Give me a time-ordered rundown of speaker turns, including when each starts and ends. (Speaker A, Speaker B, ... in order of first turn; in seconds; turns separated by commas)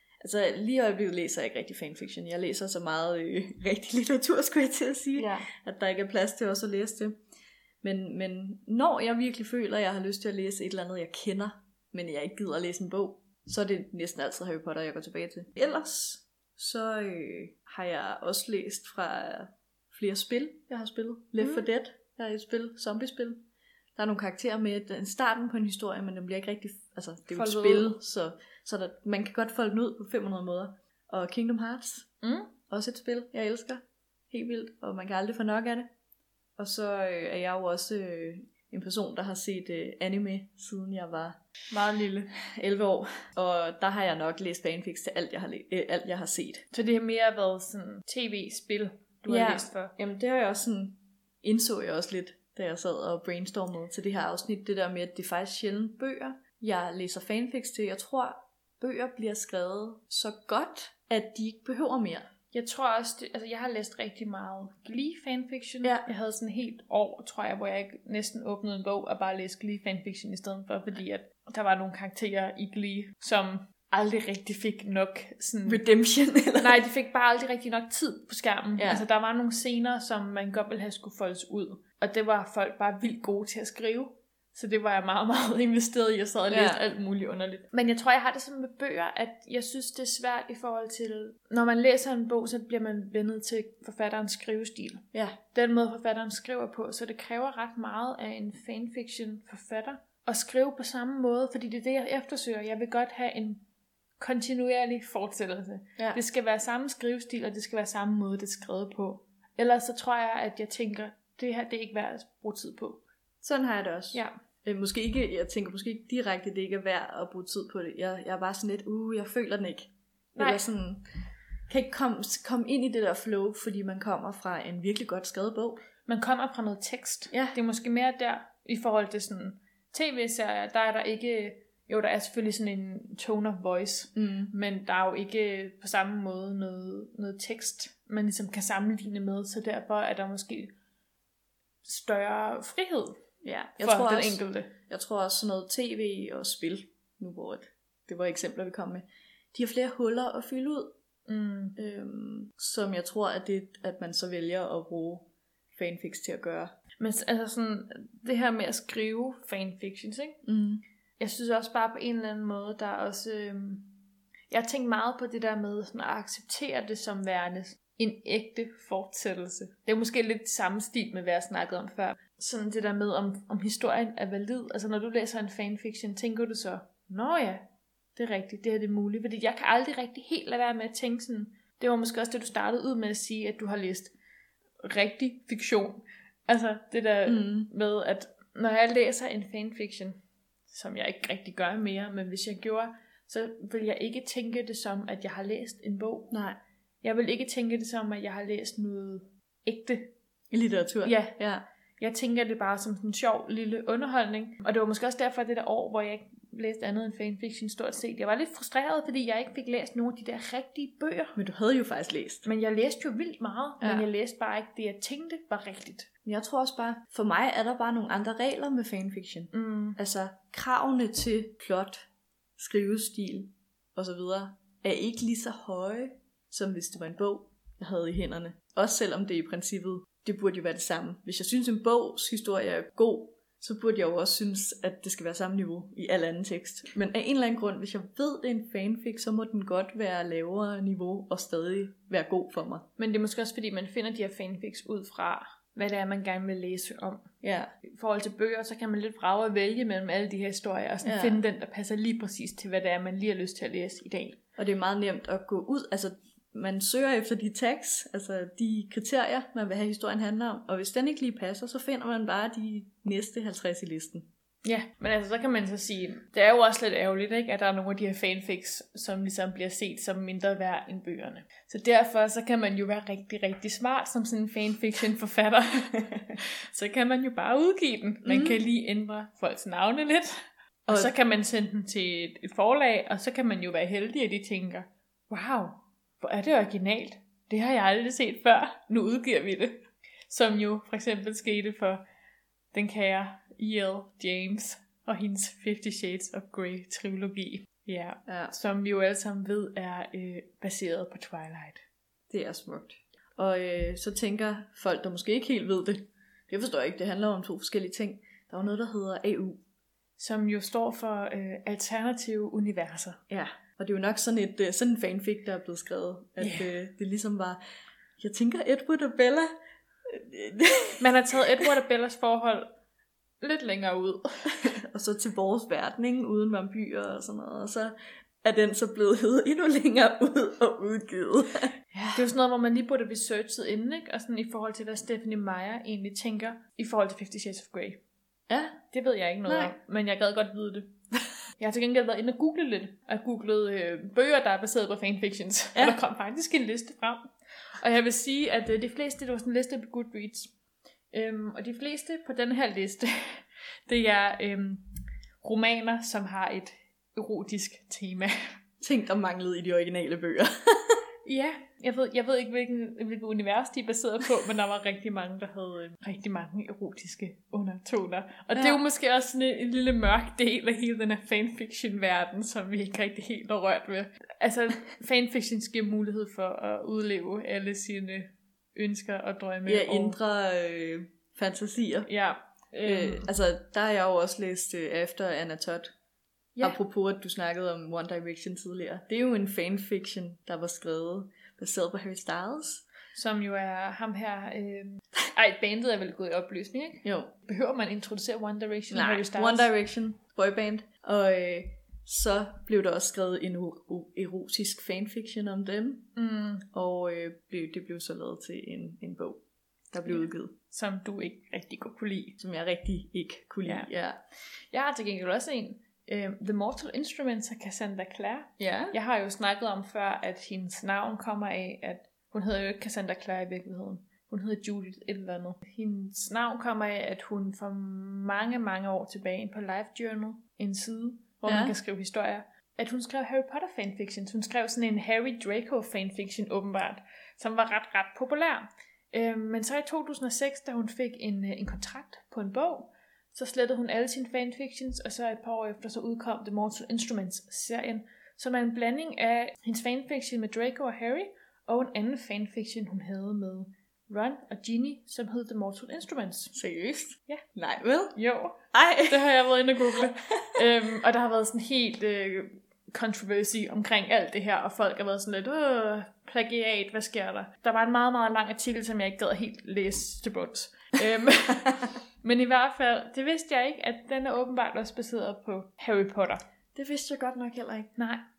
Speaker A: 0.2-7.2, Speaker A: 7.8-23.4, Speaker A: 23.9-32.1, Speaker B: 27.3-28.0, Speaker B: 32.2-32.5, Speaker A: 32.7-35.9, Speaker A: 36.6-41.4, Speaker B: 41.7-42.3, Speaker A: 42.3-46.6, Speaker B: 46.7-49.9, Speaker A: 49.3-62.3, Speaker B: 62.5-75.8, Speaker A: 75.7-76.8, Speaker B: 76.6-103.6, Speaker A: 78.8-79.0, Speaker A: 86.5-86.8, Speaker B: 104.2-113.0, Speaker A: 113.4-121.0, Speaker B: 120.3-120.6, Speaker A: 121.7-125.8, Speaker B: 126.1-140.7, Speaker A: 127.3-127.6, Speaker A: 134.1-134.5, Speaker B: 141.8-143.2, Speaker A: 143.4-150.9, Speaker B: 143.8-144.7, Speaker B: 151.3-151.8, Speaker A: 151.8-156.7, Speaker B: 157.0-160.4, Speaker A: 160.4-160.8, Speaker B: 161.2-163.9, Speaker B: 164.5-184.1, Speaker B: 184.8-196.3, Speaker A: 187.2-187.7, Speaker A: 196.3-196.6, Speaker B: 197.0-200.1, Speaker A: 200.5-201.6, Speaker B: 201.0-201.4, Speaker B: 202.0-211.4, Speaker A: 211.3-212.4, Speaker B: 212.4-216.1, Speaker A: 213.8-214.1, Speaker A: 216.2-242.8, Speaker B: 219.5-220.0, Speaker B: 243.0-247.3, Speaker A: 247.4-247.7, Speaker B: 247.8-254.4, Speaker A: 251.0-251.4, Speaker A: 254.6-264.3, Speaker B: 264.6-292.0, Speaker A: 278.2-278.6, Speaker B: 292.7-301.8, Speaker A: 298.2-298.5, Speaker A: 302.3-309.6, Speaker B: 310.2-313.2, Speaker A: 313.3-317.6, Speaker B: 316.4-316.7, Speaker A: 318.2-319.5, Speaker A: 320.1-321.6, Speaker B: 321.0-322.7, Speaker B: 323.4-324.7, Speaker A: 324.6-332.2, Speaker B: 332.1-338.0, Speaker A: 338.5-338.8, Speaker B: 338.9-340.9, Speaker A: 339.4-339.7, Speaker B: 341.6-350.5, Speaker B: 351.1-354.9, Speaker B: 355.4-358.5, Speaker A: 358.8-361.0, Speaker B: 361.2-380.2, Speaker A: 368.5-368.8, Speaker A: 379.6-382.1, Speaker B: 382.1-383.3, Speaker A: 382.8-385.9, Speaker A: 386.6-392.8, Speaker B: 393.1-399.7, Speaker A: 397.0-397.3, Speaker A: 398.9-406.1, Speaker B: 406.1-406.6, Speaker A: 406.7-410.5, Speaker B: 410.1-412.4, Speaker A: 412.4-414.2, Speaker B: 414.7-456.5, Speaker A: 418.6-418.9, Speaker A: 431.4-431.7, Speaker A: 456.5-458.2, Speaker B: 458.1-476.4, Speaker A: 458.7-460.1, Speaker A: 476.7-477.9, Speaker B: 478.0-478.2